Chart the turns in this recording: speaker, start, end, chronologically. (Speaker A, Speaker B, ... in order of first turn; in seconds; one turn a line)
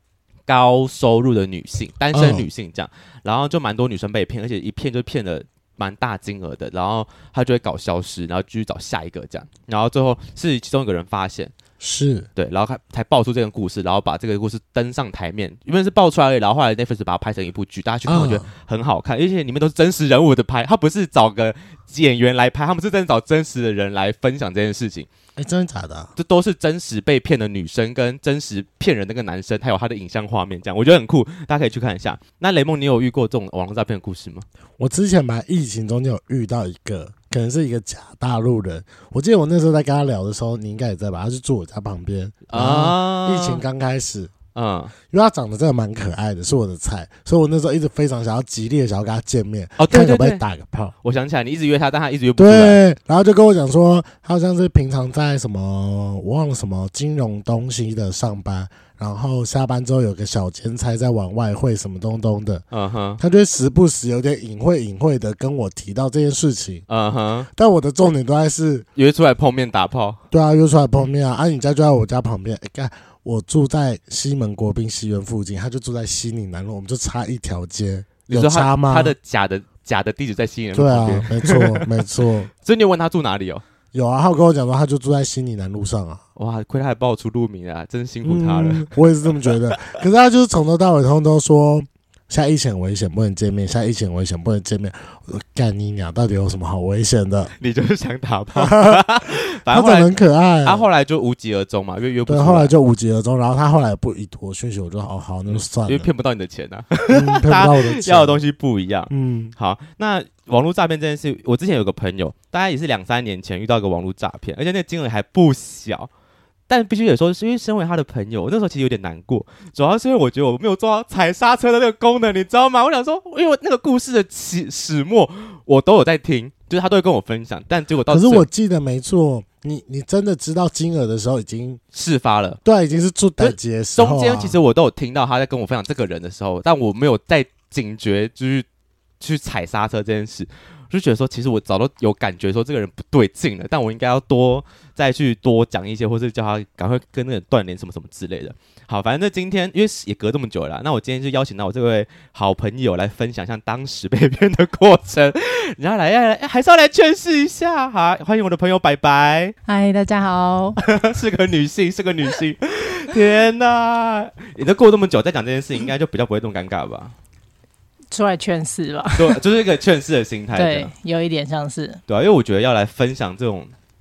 Speaker A: 0.5-11.5
Speaker B: 2.1-2.5
Speaker B: 11.8-12.3
Speaker A: 12.3-25.1
Speaker B: 18.1-18.4
Speaker B: 25.4-26.1
Speaker A: 26.1-34.5
Speaker B: 34.8-44.3
Speaker A: 42.5-43.6
Speaker A: 44.5-44.9
Speaker B: 45.1-50.9
Speaker A: 49.8-50.4
Speaker A: 51.0-52.8
Speaker B: 52.4-62.6
Speaker A: 62.7-63.2
Speaker B: 63.2-66.8
Speaker A: 66.9-67.5
Speaker B: 67.5-68.8
Speaker A: 69.0-70.2
Speaker B: 70.3-79.1
Speaker A: 78.2-82.0
Speaker B: 80.7-82.5
Speaker A: 82.6-83.6
Speaker B: 83.9-86.2
Speaker A: 86.3-90.0
Speaker B: 88.2-97.5
Speaker A: 97.6-100.1
Speaker B: 98.5-99.0
Speaker B: 99.7-100.9
Speaker A: 100.6-102.7
Speaker B: 102.2-106.1
Speaker A: 105.5-116.1
Speaker B: 107.1-108.4
Speaker B: 109.1-109.5
Speaker A: 116.7-128.5
Speaker B: 128.1-131.8
Speaker A: 131.9-132.6
Speaker B: 132.6-134.6
Speaker A: 133.4-138.7
Speaker A: 139.2-159.5
Speaker C: 159.7-160.8
Speaker A: 160.8-167.1
Speaker C: 168.1-169.4
Speaker A: 169.2-170.9
Speaker C: 170.5-172.0
Speaker A: 172.1-173.7